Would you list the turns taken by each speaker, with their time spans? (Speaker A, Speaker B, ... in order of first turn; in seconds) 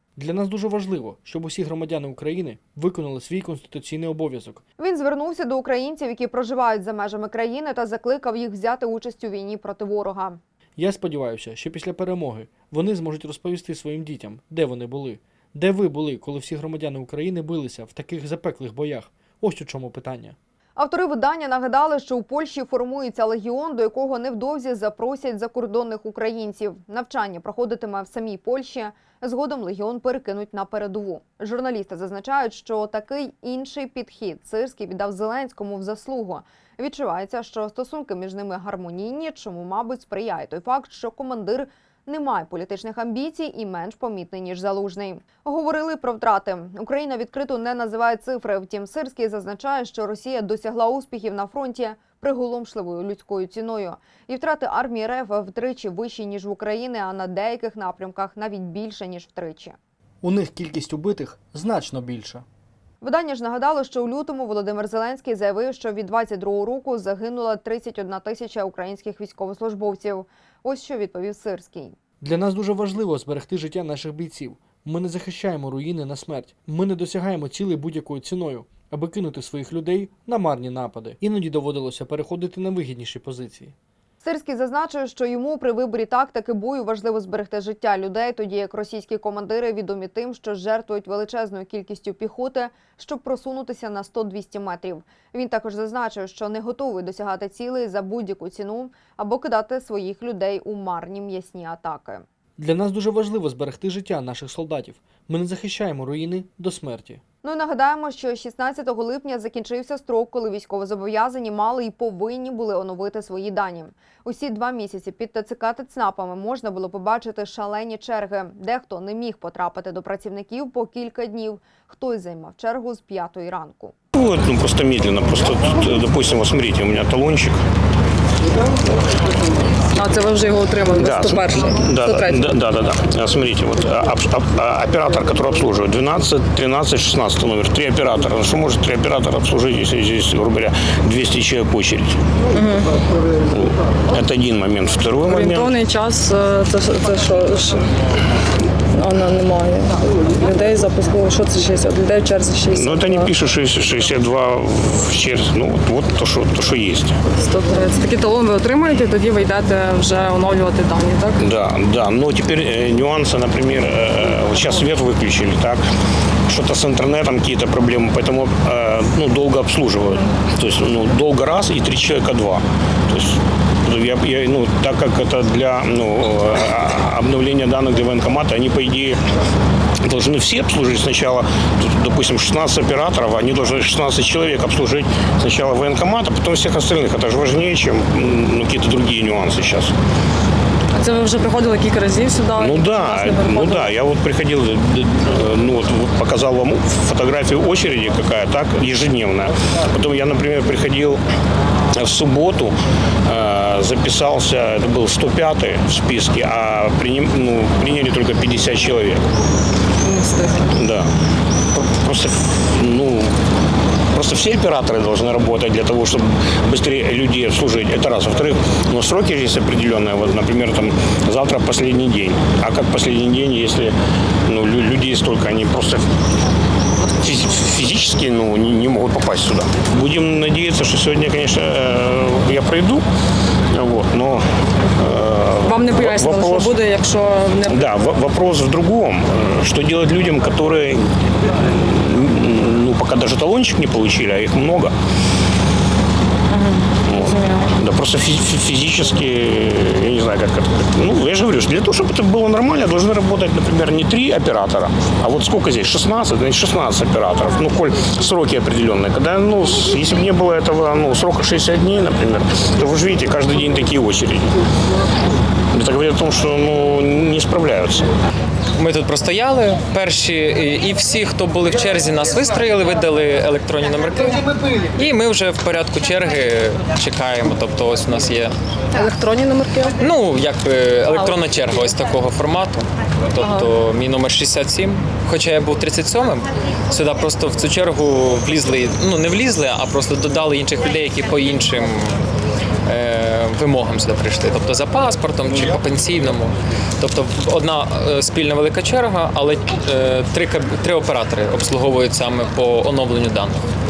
Speaker A: 0.1-4.6, 10.8-20.4, 60.2-62.4, 72.2-83.7, 102.6-107.2
Speaker B: 4.8-10.4, 20.8-59.8, 63.0-71.9, 84.2-102.2, 107.4-123.9
Speaker C: 124.1-127.6, 130.9-142.2, 143.5-145.8, 152.7-157.1, 161.4-165.8, 166.5-179.2, 180.0-189.9, 192.5-201.2, 201.9-202.7, 203.2-209.2, 210.7-211.1, 211.7-213.3, 214.1-223.9, 224.4-226.0, 227.2-233.0, 233.7-236.8, 237.7-244.9, 247.0-264.5, 265.7-268.1
Speaker D: 129.9-132.5, 142.5-142.9, 145.2-147.8, 148.9-153.3, 157.3-161.4, 191.0-193.9, 210.0-210.7, 235.7-237.8, 246.5-247.7, 278.9-280.0, 283.4-283.7
Speaker E: 268.8-278.5, 280.0-292.1, 292.9-303.6